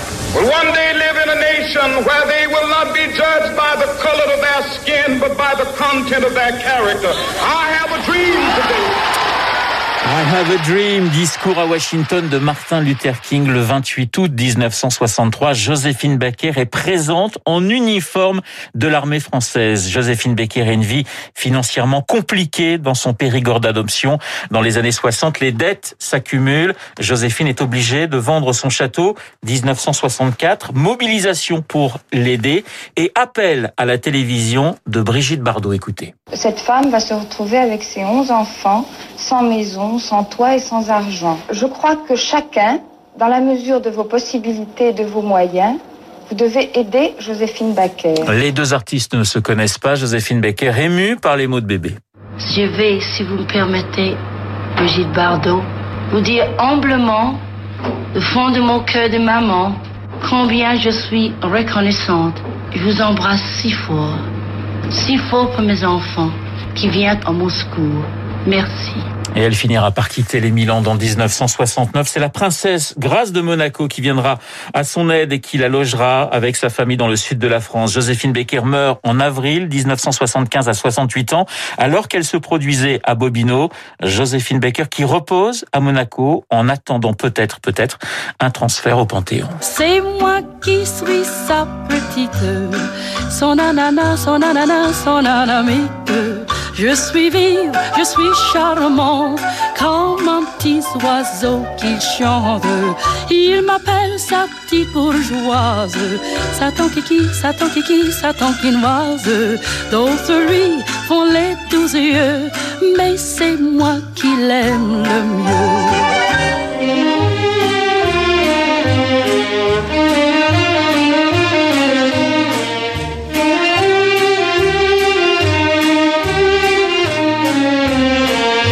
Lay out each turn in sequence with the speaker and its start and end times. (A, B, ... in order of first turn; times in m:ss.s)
0:00.3-0:09.0 A
0:10.0-0:36.1 B
0:36.3-0:48.3 C
0:48.2-0:52.0 B
0:52.4-0:54.2 D
0:54.8-0:57.4 D
0:58.1-1:04.2 D
1:04.9-1:09.1 D
1:09.4-1:29.6 B
1:29.6-1:56.2 E